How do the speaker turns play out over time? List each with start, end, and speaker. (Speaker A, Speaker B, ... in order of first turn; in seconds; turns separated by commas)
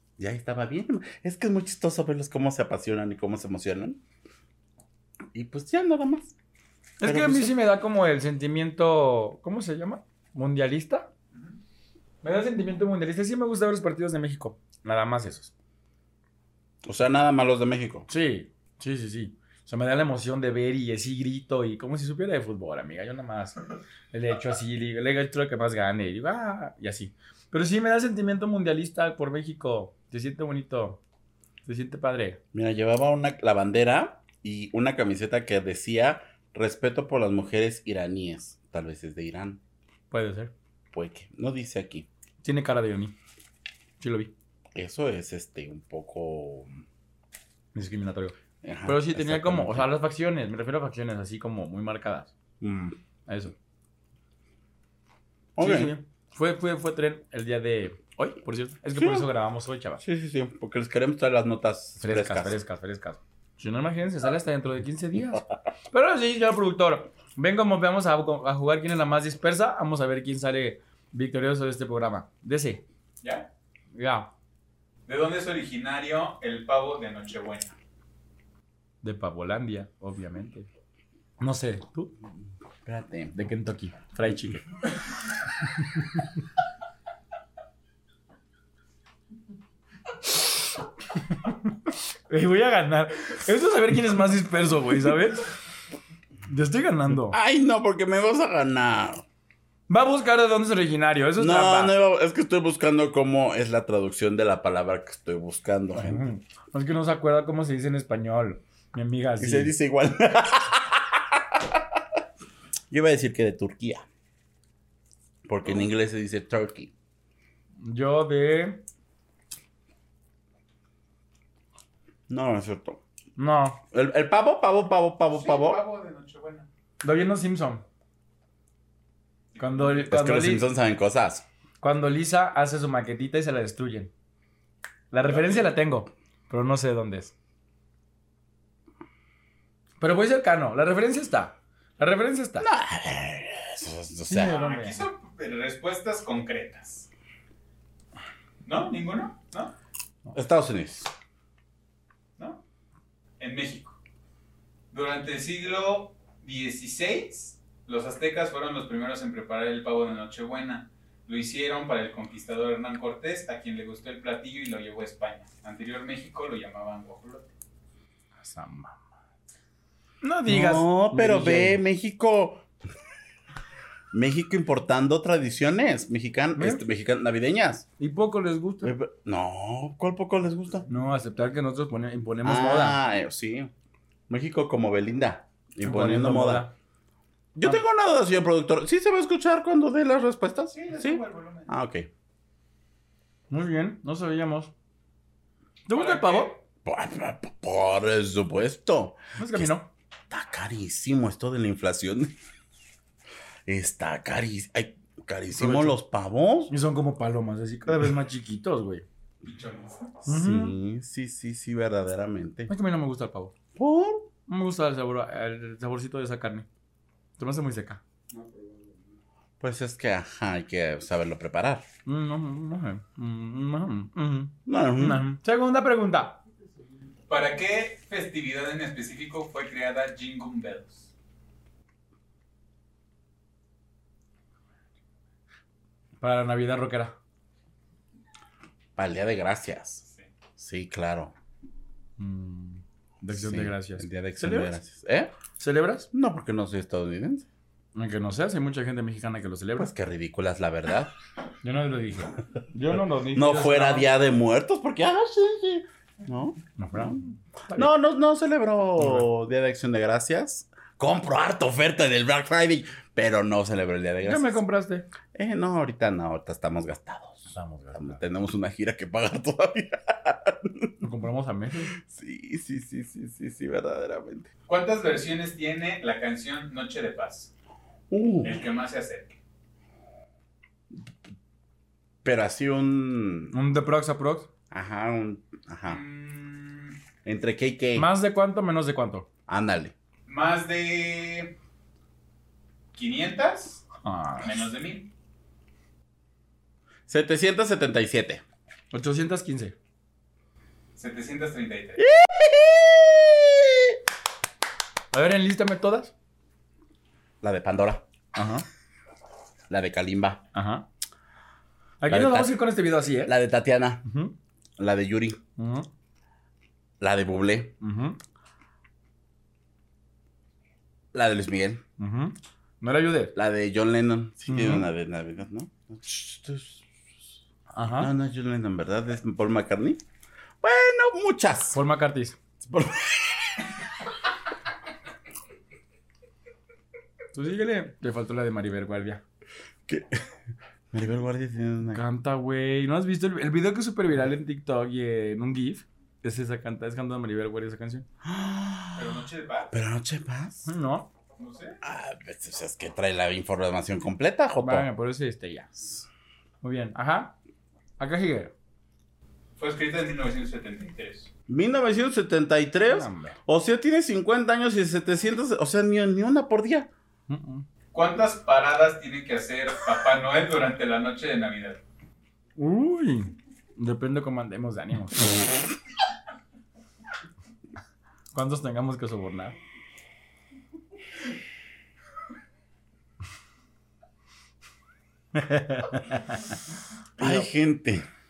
Speaker A: 0.2-4.0, Speaker A: 5.3-6.3, Speaker B: 7.0-11.1, Speaker A: 7.0-7.5, Speaker B: 12.2-15.5, Speaker A: 16.8-18.1, Speaker B: 18.1-23.6, Speaker B: 24.1-31.0, Speaker B: 31.6-32.4, Speaker A: 32.5-39.6, Speaker B: 40.1-40.5, Speaker A: 40.9-42.1, Speaker B: 42.4-43.1, Speaker B: 44.0-44.3, Speaker A: 44.7-46.7, Speaker B: 47.7-52.3, Speaker A: 48.6-49.9, Speaker A: 52.6-53.0, Speaker B: 53.3-53.5, Speaker A: 55.5-55.9, Speaker B: 55.6-60.0, Speaker A: 59.0-59.3, Speaker A: 60.0-62.6, Speaker B: 62.0-72.8, Speaker C: 73.2-73.5, Speaker B: 73.9-74.3, Speaker C: 75.1-77.7, Speaker B: 79.0-80.7, Speaker B: 81.4-82.1, Speaker A: 82.8-83.3, Speaker B: 83.3-84.6, Speaker B: 85.7-86.2, Speaker B: 92.3-95.5, Speaker B: 96.5-97.4, Speaker A: 97.2-99.2, Speaker B: 99.9-101.9, Speaker A: 101.4-106.3, Speaker B: 106.0-109.7, Speaker A: 109.4-112.0, Speaker A: 112.9-114.0, Speaker A: 115.5-116.9, Speaker B: 117.8-118.8, Speaker A: 122.3-123.0, Speaker B: 123.4-123.8, Speaker A: 123.9-125.8, Speaker C: 125.3-126.7, Speaker B: 127.0-127.8, Speaker C: 129.5-130.1, Speaker B: 129.6-130.7, Speaker A: 130.1-131.4, Speaker B: 131.8-134.1, Speaker B: 135.1-137.3, Speaker C: 135.3-135.6, Speaker B: 140.0-142.7, Speaker A: 142.6-144.5, Speaker B: 144.3-145.0, Speaker C: 144.4-147.1, Speaker C: 148.6-149.7, Speaker A: 150.3-151.1, Speaker C: 153.4-154.0, Speaker C: 154.9-167.5, Speaker B: 168.4-169.0, Speaker B: 170.2-171.8, Speaker A: 170.5-172.7, Speaker A: 174.1-177.8, Speaker B: 176.6-176.8, Speaker B: 178.0-178.9, Speaker A: 178.8-180.9, Speaker B: 180.9-183.0, Speaker A: 182.4-183.7, Speaker A: 184.3-186.6, Speaker B: 185.8-186.7, Speaker A: 187.5-192.1, Speaker C: 190.7-191.7, Speaker B: 193.5-194.7, Speaker B: 195.8-196.6, Speaker C: 195.9-196.6, Speaker A: 196.8-199.7, Speaker B: 199.4-199.9, Speaker A: 200.3-202.3, Speaker A: 203.7-206.7, Speaker B: 205.6-205.9, Speaker B: 206.7-209.0, Speaker C: 209.4-210.1, Speaker A: 210.2-212.7, Speaker B: 210.3-210.7, Speaker B: 212.7-213.5, Speaker A: 213.8-214.3, Speaker B: 214.5-216.7, Speaker B: 217.4-218.0, Speaker C: 218.3-218.7, Speaker A: 219.6-221.8, Speaker B: 222.1-226.4, Speaker A: 224.7-225.2, Speaker C: 227.3-231.1, Speaker B: 236.2-237.1, Speaker A: 238.9-240.0, Speaker A: 240.6-241.3, Speaker B: 242.2-244.7, Speaker A: 243.2-245.3, Speaker B: 245.6-246.1, Speaker A: 246.1-247.4, Speaker B: 247.9-249.9, Speaker A: 249.8-251.1, Speaker B: 251.6-254.1, Speaker A: 253.3-257.2, Speaker B: 256.8-257.9, Speaker A: 257.7-264.6, Speaker B: 259.0-259.3, Speaker B: 264.2-265.1, Speaker A: 265.3-270.9, Speaker B: 267.5-268.2, Speaker B: 271.0-271.9, Speaker A: 271.9-274.5, Speaker C: 274.7-277.5, Speaker A: 278.1-278.6, Speaker C: 278.4-279.4, Speaker A: 282.2-283.5, Speaker B: 283.5-284.5, Speaker A: 284.7-286.0, Speaker C: 285.9-287.0, Speaker A: 287.2-288.1, Speaker B: 287.9-289.3, Speaker A: 289.5-289.9, Speaker C: 290.3-291.5, Speaker C: 292.9-293.9, Speaker B: 294.0-294.7, Speaker C: 294.4-295.1, Speaker A: 297.1-298.4, Speaker B: 298.9-299.7, Speaker C: 300.9-302.0, Speaker A: 302.0-304.0, Speaker B: 305.1-306.1, Speaker A: 307.4-308.0, Speaker B: 308.3-308.6, Speaker A: 309.7-310.4, Speaker B: 310.5-310.9, Speaker B: 312.0-313.3, Speaker A: 312.1-312.6, Speaker A: 313.2-314.0, Speaker B: 314.1-314.3, Speaker A: 314.8-315.4, Speaker B: 315.6-315.9, Speaker A: 317.0-317.8, Speaker B: 317.8-318.2, Speaker A: 321.1-321.8, Speaker B: 322.0-323.3, Speaker A: 323.3-326.8, Speaker B: 324.5-324.9, Speaker B: 327.7-328.1, Speaker A: 327.9-330.0, Speaker A: 330.6-331.8, Speaker B: 331.7-332.4, Speaker A: 332.6-333.7, Speaker B: 337.3-339.2, Speaker A: 339.9-340.2, Speaker A: 340.9-342.0, Speaker B: 341.9-348.0, Speaker A: 348.2-350.7, Speaker C: 348.9-349.7, Speaker B: 350.6-351.1, Speaker C: 351.4-351.8, Speaker A: 351.8-354.9, Speaker B: 354.6-355.9, Speaker B: 356.6-357.3, Speaker B: 358.0-358.5, Speaker C: 359.6-361.3, Speaker A: 361.5-366.9, Speaker B: 362.9-363.4, Speaker B: 367.3-367.6, Speaker C: 367.9-371.8, Speaker B: 372.6-375.3, Speaker B: 378.3-379.6, Speaker B: 385.3-386.5, Speaker B: 387.2-387.5, Speaker A: 387.2-388.0